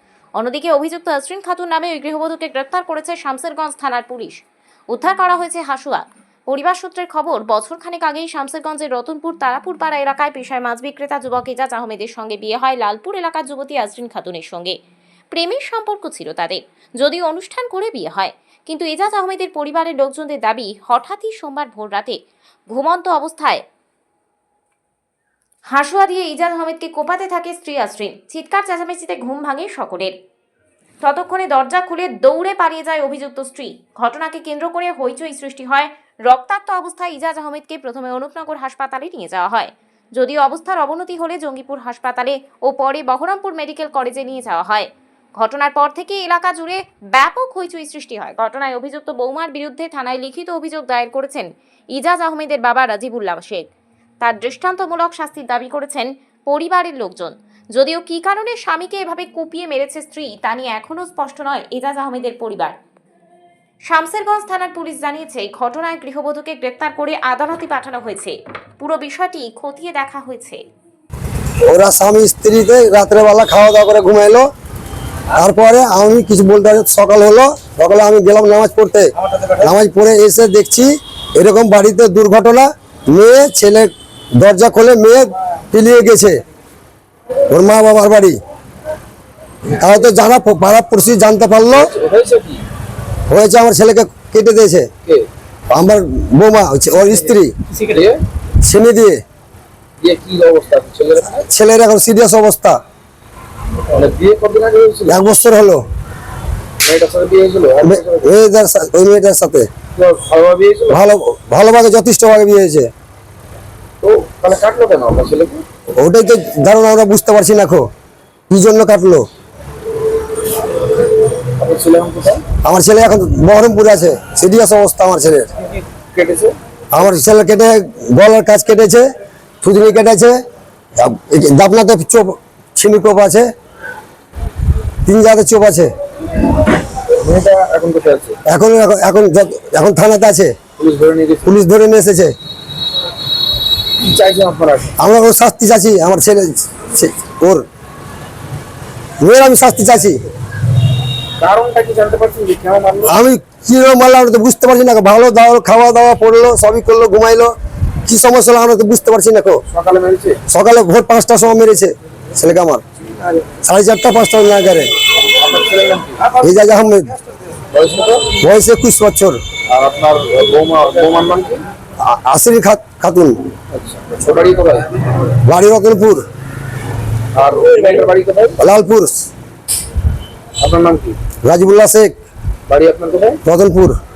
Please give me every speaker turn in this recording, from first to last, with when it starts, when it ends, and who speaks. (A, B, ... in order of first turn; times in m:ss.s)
0:00.4-0:04.3 A
0:04.9-0:14.8 A
0:15.3-0:23.6 A
0:25.7-0:30.1 A
0:31.0-0:53.7 A
0:54.2-1:02.8 A
1:03.9-1:10.6 A
1:11.6-1:14.5 B
1:15.3-1:26.4 B
1:27.5-1:28.4 B
1:29.7-1:31.9 B
1:31.7-1:32.6 C
1:33.3-1:34.9 B
1:35.7-1:37.5 B
1:37.9-1:38.2 C
1:38.6-1:39.2 B
1:40.0-1:41.4 C
1:41.5-1:42.8 B
1:43.9-1:45.2 C
1:45.1-1:45.8 B
1:46.8-1:48.2 C
1:47.8-1:49.7 B
1:50.0-1:51.0 C
1:50.9-1:52.9 B
1:54.0-1:55.6 C
1:56.0-1:57.9 B
1:58.5-1:59.3 B
2:01.6-2:02.4 C
2:02.6-2:05.5 B
2:05.6-2:06.5 C
2:06.9-2:09.1 B
2:09.6-2:10.4 B
2:11.0-2:13.5 B
2:15.0-2:15.9 B
2:17.1-2:18.4 C
2:18.4-2:20.5 B
2:20.8-2:21.6 C
2:21.4-2:22.3 B
2:24.0-2:25.0 C
2:25.0-2:27.6 B
2:29.2-2:30.2 B
2:31.4-2:33.2 C
2:33.0-2:37.5 B
2:38.0-2:39.6 B
2:39.7-2:40.4 C
2:40.5-2:42.8 B
2:43.6-2:44.9 B
2:45.3-2:46.4 C
2:46.4-2:47.1 B
2:47.7-2:48.3 C
2:48.3-2:49.4 B
2:49.7-2:51.6 C
2:52.0-2:53.4 B
2:53.7-2:54.9 C
2:55.4-2:56.2 B
2:57.3-2:58.6 C
2:58.6-2:59.2 B
3:00.6-3:01.2 C
3:01.4-3:02.1 B
3:02.7-3:03.4 C
3:03.4-3:04.0 B